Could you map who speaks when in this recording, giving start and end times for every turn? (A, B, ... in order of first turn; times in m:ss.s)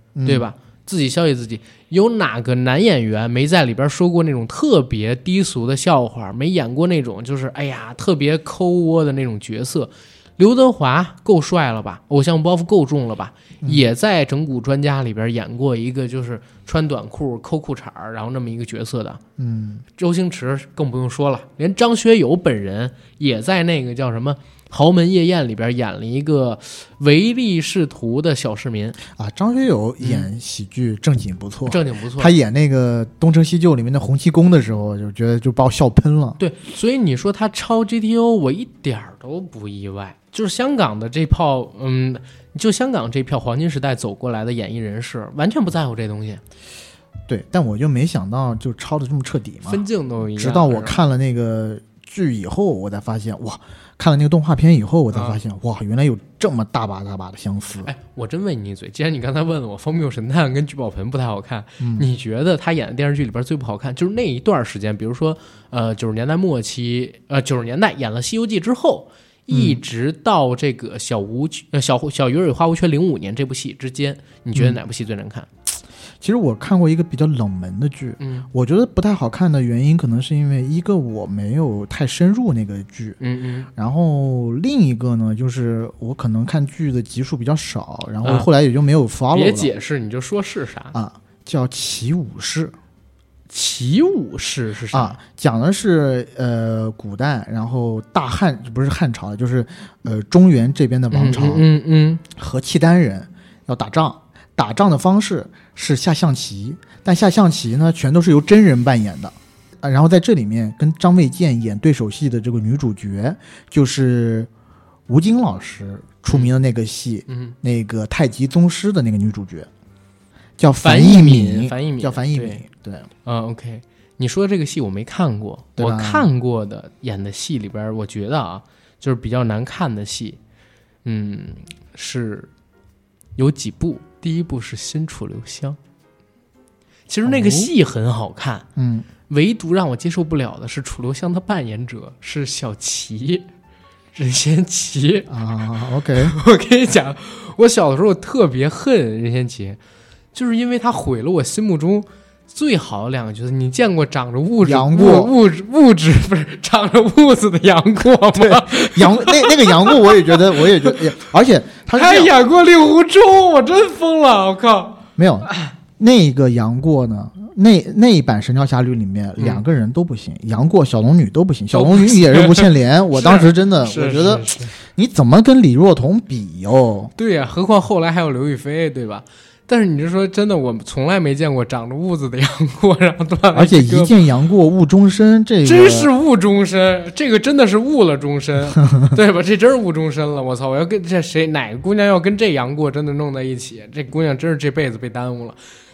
0:00.2-0:00.5 A
0:00.2-0:19.2 B
0:19.4-0:19.8 A
0:20.0-0:29.0 B
0:29.1-0:36.4 A
0:30.0-0:30.3 B
0:31.7-0:32.3 B
0:36.4-0:46.4 B
0:47.3-0:49.8 A
0:49.6-0:51.0 B
0:50.3-0:57.9 A
0:55.1-0:55.4 B
0:57.8-1:15.5 B
1:01.8-1:02.1 A
1:09.5-1:09.8 A
1:16.2-1:23.2 A
1:18.2-1:18.5 B
1:23.2-1:23.7 B
1:23.7-1:29.7 A
1:29.3-1:30.9 B
1:30.9-1:32.7 A
1:33.5-1:35.2 B
1:34.9-1:41.6 A
1:41.1-1:42.2 B
1:42.3-1:54.5 A
1:55.1-1:59.7 A
1:57.3-1:57.5 B
2:00.6-2:03.1 A
2:00.8-2:02.6 B
2:03.2-2:10.4 B
2:05.8-2:06.3 A
2:11.0-2:12.5 B
2:13.4-2:15.8 B
2:17.1-2:18.6 B
2:17.2-2:17.7 A
2:18.8-2:19.1 A
2:19.3-2:23.4 B
2:24.1-2:25.3 B
2:25.3-2:26.3 A
2:26.2-2:29.8 B
2:30.3-2:41.0 B
2:34.6-2:35.3 A
2:38.3-2:42.4 A
2:41.9-2:45.7 B
2:45.2-2:57.1 A
2:49.4-2:49.6 B
2:51.7-2:54.7 B
2:57.2-3:04.2 B
3:03.5-3:06.1 A
3:05.6-3:15.6 B